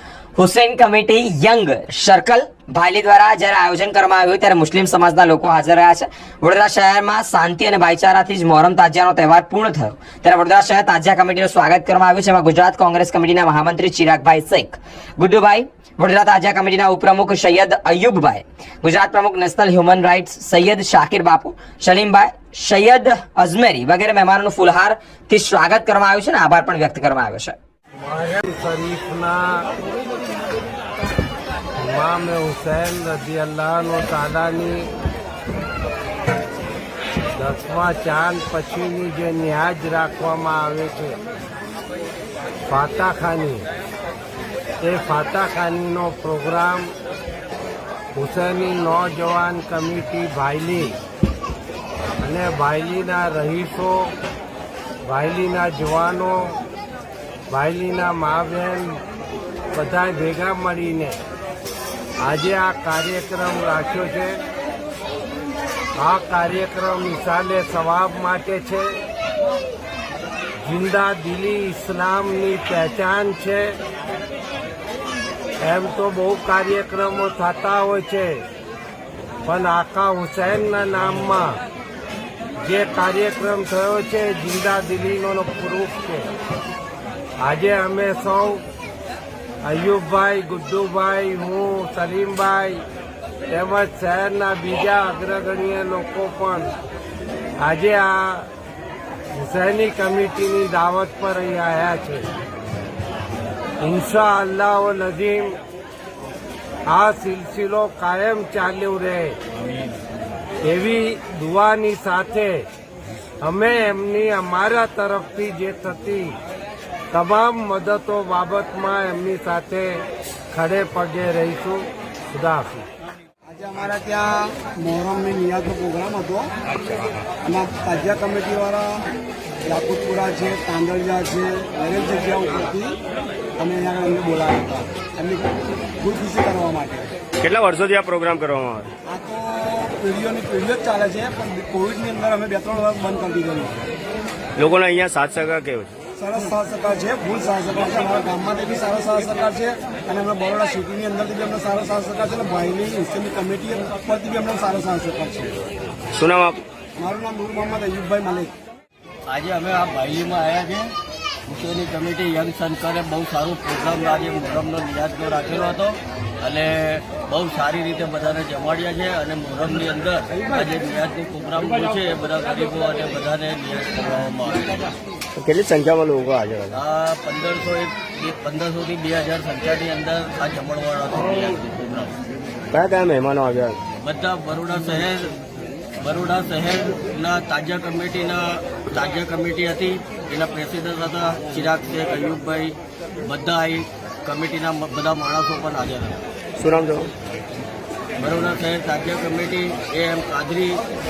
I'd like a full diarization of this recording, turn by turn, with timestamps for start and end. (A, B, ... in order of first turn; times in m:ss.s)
0:00.4-0:27.6 A
0:28.0-0:29.7 B
0:31.8-0:34.9 B
0:37.4-0:41.2 B
0:42.7-0:43.6 B
0:44.8-0:46.9 B
0:48.2-0:51.0 B
0:52.2-0:54.1 B
0:55.0-0:56.6 B
0:57.5-0:59.0 B
0:59.7-1:01.2 B
1:02.2-1:04.4 B
1:06.0-1:09.0 B
1:10.6-1:13.8 B
1:15.6-1:18.4 B
1:19.5-1:21.6 B
1:22.6-1:26.3 B
1:27.4-1:28.6 B
1:29.6-1:32.8 B
1:33.5-1:36.7 B
1:37.6-1:38.5 B
1:39.3-1:42.3 B
1:43.8-1:45.6 B
1:46.9-1:49.4 B
1:50.6-1:52.7 B
1:53.4-1:56.4 B
1:57.1-2:02.9 B
2:03.5-2:06.5 C
2:07.5-2:09.1 C
2:09.6-2:13.0 C
2:13.6-2:17.1 C
2:17.4-2:18.9 D
2:19.1-2:23.8 C
2:24.6-2:25.9 D
2:26.2-2:35.6 C
2:36.1-2:36.6 D
2:37.0-2:38.6 C
2:39.3-2:41.0 E
2:41.5-2:54.9 E
2:55.4-2:56.8 D
2:56.7-3:02.1 E
3:02.7-3:03.8 D
3:04.0-3:05.3 E
3:06.0-3:16.2 E
3:16.6-3:17.1 D
3:18.2-3:20.8 E